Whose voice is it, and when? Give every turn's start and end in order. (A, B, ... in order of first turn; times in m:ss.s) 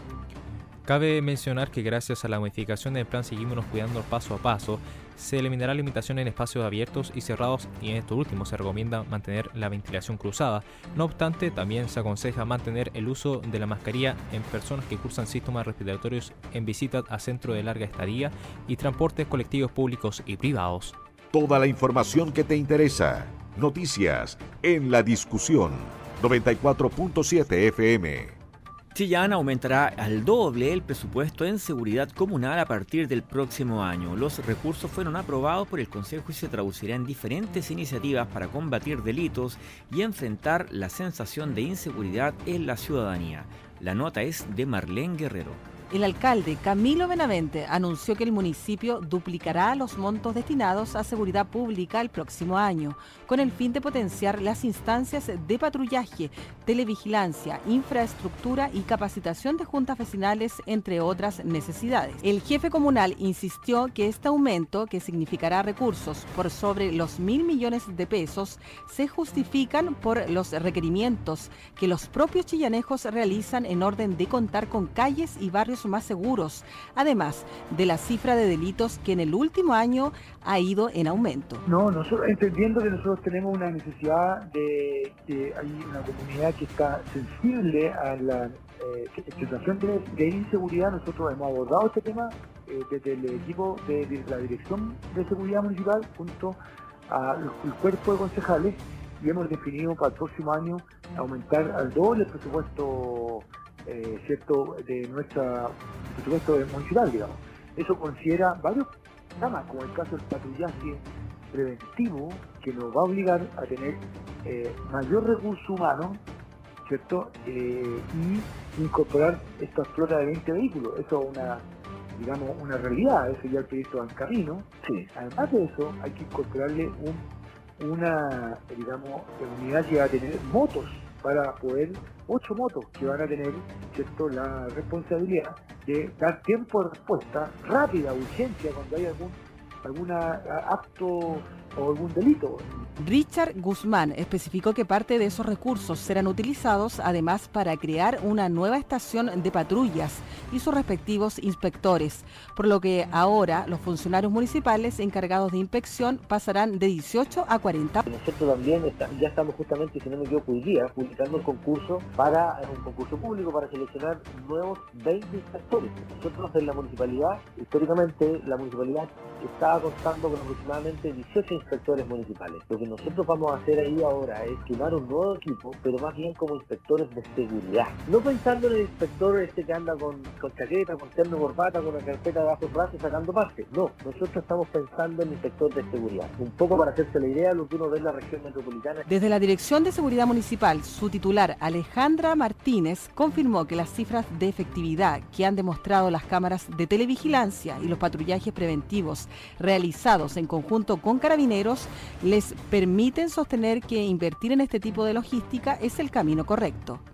0:00.9-0:21.0 A
0:21.3-0:28.4 B
0:28.9-0:45.6 C
0:45.9-1:21.6 D
1:21.6-1:56.2 E
1:56.8-2:07.3 E
2:07.8-2:22.8 E
2:23.0-2:38.0 D
2:38.1-3:09.0 F
3:09.1-3:27.0 D